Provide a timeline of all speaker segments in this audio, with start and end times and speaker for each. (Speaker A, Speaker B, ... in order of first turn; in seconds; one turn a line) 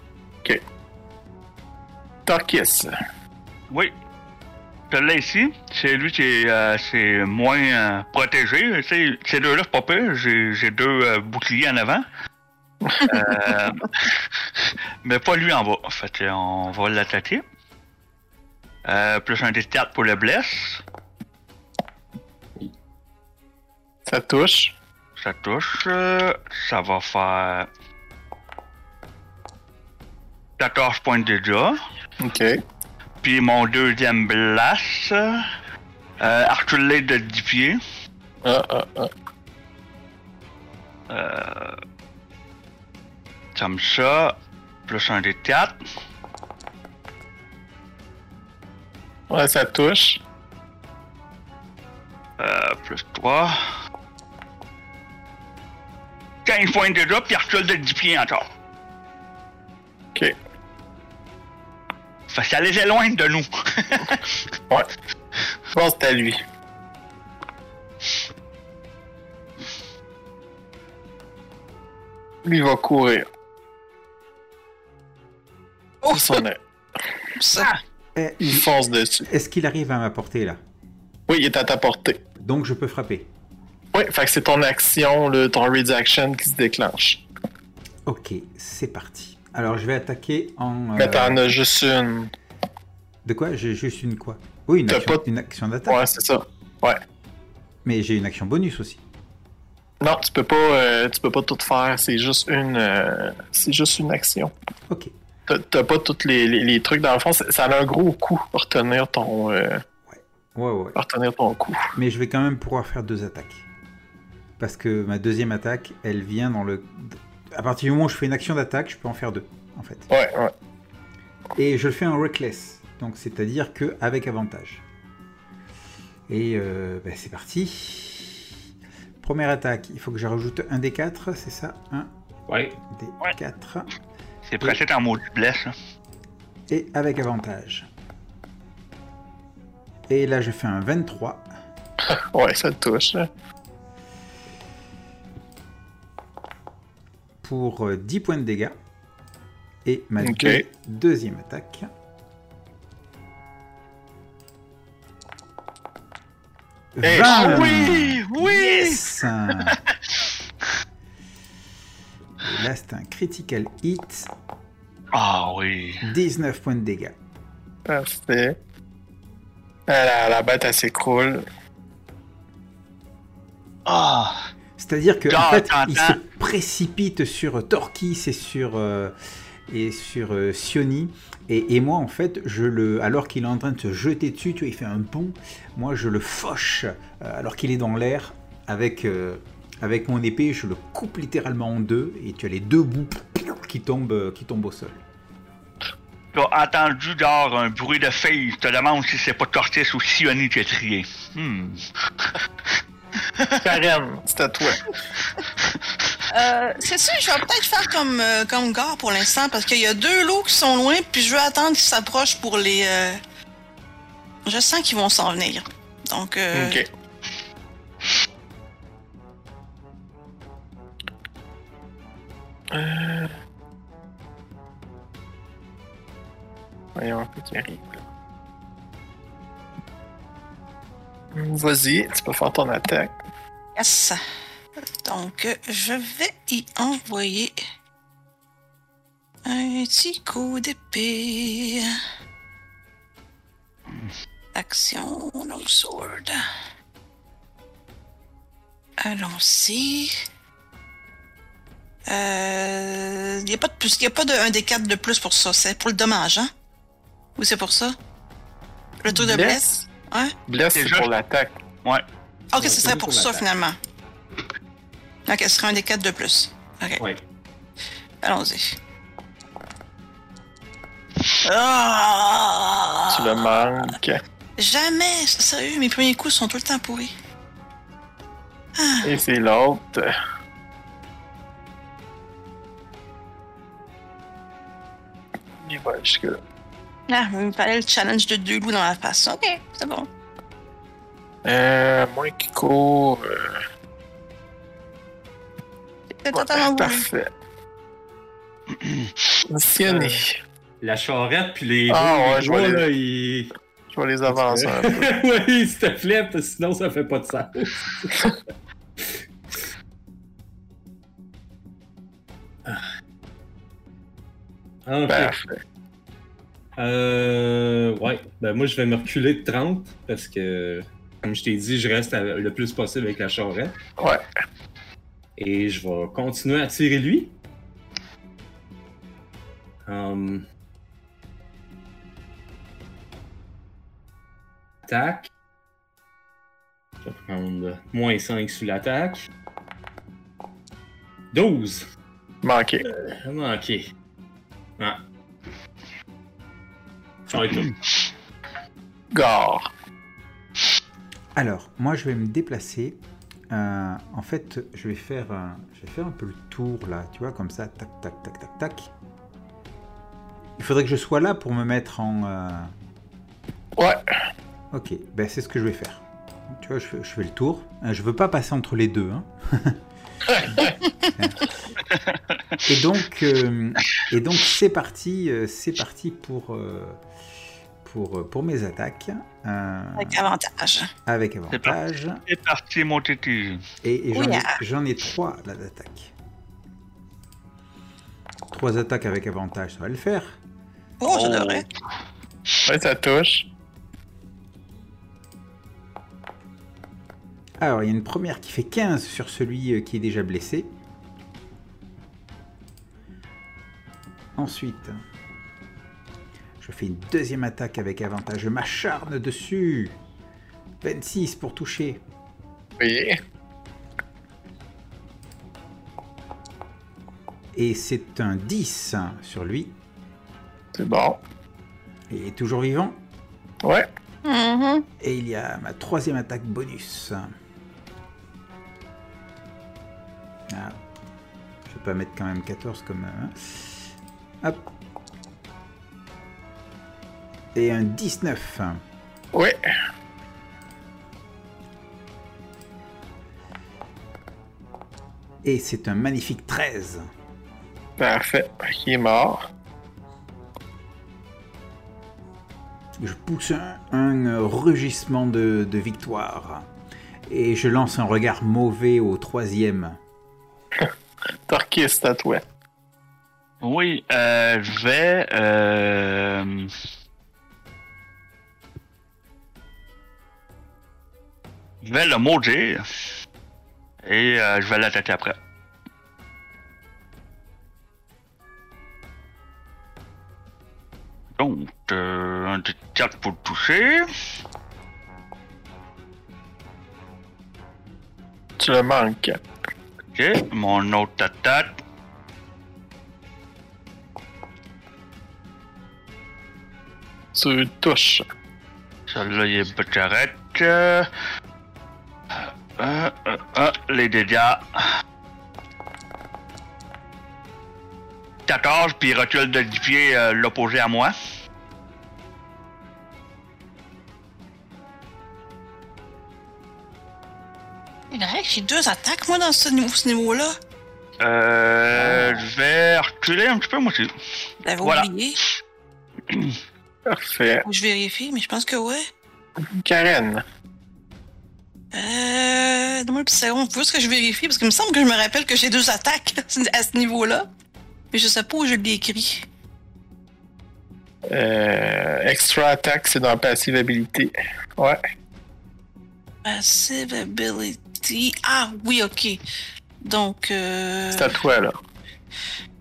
Speaker A: 2.2-2.9
Speaker B: 4.9-12.0
Speaker A: 12.9-13.1
Speaker B: 13.0-14.2
Speaker B: 15.0-17.4
Speaker B: 18.9-20.8
Speaker A: 24.1-24.7
Speaker B: 25.2-27.7
Speaker B: 30.6-31.8
Speaker A: 32.2-32.6
Speaker B: 33.2-35.5
Speaker B: 36.2-37.8
Speaker A: 38.4-39.1
Speaker B: 41.1-41.8
Speaker B: 43.5-45.8
Speaker A: 49.3-50.2
Speaker B: 52.4-53.7
Speaker B: 56.4-58.5
Speaker B: 62.3-64.4
Speaker A: 65.7-66.4
Speaker A: 72.4-73.3
Speaker A: 76.1-76.6
Speaker C: 77.4-77.7
Speaker D: 78.1-78.7
Speaker A: 78.4-79.3
Speaker D: 79.3-80.6
Speaker A: 81.3-82.2
Speaker D: 82.4-83.3
Speaker A: 83.9-87.2
Speaker D: 88.0-91.6
Speaker A: 91.0-92.3
Speaker D: 93.2-96.0
Speaker A: 94.9-95.2
Speaker A: 95.9-97.0
Speaker D: 97.8-99.0
Speaker A: 100.0-104.5
Speaker A: 105.5-109.8
Speaker D: 110.1-111.0
Speaker A: 111.0-111.9
Speaker D: 111.9-113.7
Speaker D: 114.6-120.1
Speaker A: 120.1-120.5
Speaker D: 121.5-124.8
Speaker D: 126.3-128.5
Speaker D: 129.2-132.1
Speaker E: 132.5-132.8
Speaker D: 132.9-133.9
Speaker B: 134.5-135.7
Speaker D: 136.7-137.9
Speaker D: 140.1-141.5
Speaker A: 142.1-143.3
Speaker D: 147.4-148.8
Speaker D: 149.8-151.9
Speaker A: 150.2-150.6
Speaker D: 156.9-159.8
Speaker A: 157.0-158.2
Speaker B: 157.5-158.8
Speaker D: 162.4-164.3
Speaker B: 165.1-166.0
Speaker D: 166.0-167.1
Speaker A: 167.9-168.6
Speaker A: 169.9-171.4
Speaker B: 173.9-174.5
Speaker D: 174.8-179.1
Speaker B: 175.3-176.2
Speaker D: 179.7-195.0
Speaker B: 196.3-202.3
Speaker B: 203.4-203.6
Speaker A: 203.6-204.8
Speaker C: 206.3-213.2
Speaker C: 214.5-216.8
Speaker A: 216.5-216.9
Speaker A: 222.7-223.3
Speaker A: 227.0-227.9
Speaker A: 231.3-233.1
Speaker C: 233.8-234.2
Speaker C: 235.0-237.6
Speaker C: 239.5-241.9
Speaker C: 244.5-246.4
Speaker C: 249.0-250.1
Speaker C: 252.1-256.5
Speaker C: 257.4-258.0
Speaker C: 259.0-260.3
Speaker A: 259.1-259.9
Speaker A: 260.5-261.5
Speaker B: 260.7-261.1
Speaker C: 262.5-263.8
Speaker E: 262.6-263.4
Speaker C: 265.3-267.0
Speaker C: 268.2-268.8
Speaker C: 271.4-273.5
Speaker A: 273.1-274.2
Speaker C: 274.6-277.1
Speaker C: 278.8-279.1
Speaker A: 279.0-280.1
Speaker A: 285.6-286.4
Speaker C: 287.1-290.1
Speaker A: 291.4-293.6
Speaker C: 296.2-297.1
Speaker A: 296.3-297.3
Speaker B: 298.8-299.1
Speaker A: 299.5-300.4
Speaker E: 299.9-300.2
Speaker E: 300.8-303.5
Speaker A: 301.9-302.8
Speaker A: 303.9-305.1
Speaker E: 304.3-308.2
Speaker E: 314.9-315.3
Speaker A: 315.1-315.6
Speaker E: 316.8-323.8
Speaker E: 325.4-327.3
Speaker E: 329.9-330.5
Speaker E: 334.8-335.3
Speaker E: 337.0-339.2
Speaker E: 341.3-341.9
Speaker A: 342.4-342.9
Speaker E: 343.1-343.8
Speaker E: 347.3-347.8
Speaker A: 349.1-349.7
Speaker D: 351.3-358.9
Speaker D: 360.6-362.7
Speaker A: 363.8-364.0
Speaker D: 364.7-369.8
Speaker D: 371.2-371.6
Speaker B: 371.9-372.4
Speaker D: 372.7-377.0
Speaker D: 377.8-380.2
Speaker C: 380.0-380.9
Speaker D: 381.1-382.2
Speaker B: 382.3-383.6
Speaker D: 383.8-386.1
Speaker C: 384.1-384.6
Speaker D: 388.5-390.4
Speaker C: 391.0-391.7
Speaker B: 391.0-391.7
Speaker A: 392.7-393.5
Speaker D: 397.6-400.8
Speaker D: 404.3-405.0
Speaker D: 406.6-410.0
Speaker D: 410.8-412.0
Speaker A: 412.8-413.2
Speaker D: 417.5-419.8
Speaker A: 420.8-421.2
Speaker D: 422.1-423.0
Speaker C: 424.2-424.9
Speaker D: 425.0-427.3
Speaker D: 430.5-430.8
Speaker D: 431.7-433.9
Speaker D: 437.5-438.8
Speaker A: 439.3-439.6
Speaker D: 445.4-447.1
Speaker A: 448.0-449.4
Speaker D: 453.0-456.7
Speaker D: 457.3-460.0
Speaker A: 461.5-462.4
Speaker B: 463.6-466.7
Speaker B: 471.8-472.8
Speaker B: 474.0-475.4
Speaker B: 481.4-484.1
Speaker A: 488.6-489.4
Speaker B: 490.1-491.7
Speaker A: 497.3-498.2
Speaker B: 499.1-501.1
Speaker B: 502.4-504.6
Speaker B: 508.5-511.1
Speaker C: 518.1-520.5
Speaker B: 521.2-524.1
Speaker E: 521.9-522.3
Speaker C: 524.6-525.4
Speaker B: 524.8-525.1
Speaker B: 526.3-526.6
Speaker A: 527.0-527.7
Speaker C: 527.6-529.0
Speaker A: 529.8-530.4
Speaker C: 531.9-537.5
Speaker C: 538.1-539.5
Speaker A: 541.3-545.0
Speaker C: 546.5-549.4
Speaker C: 550.0-551.3
Speaker A: 551.1-551.8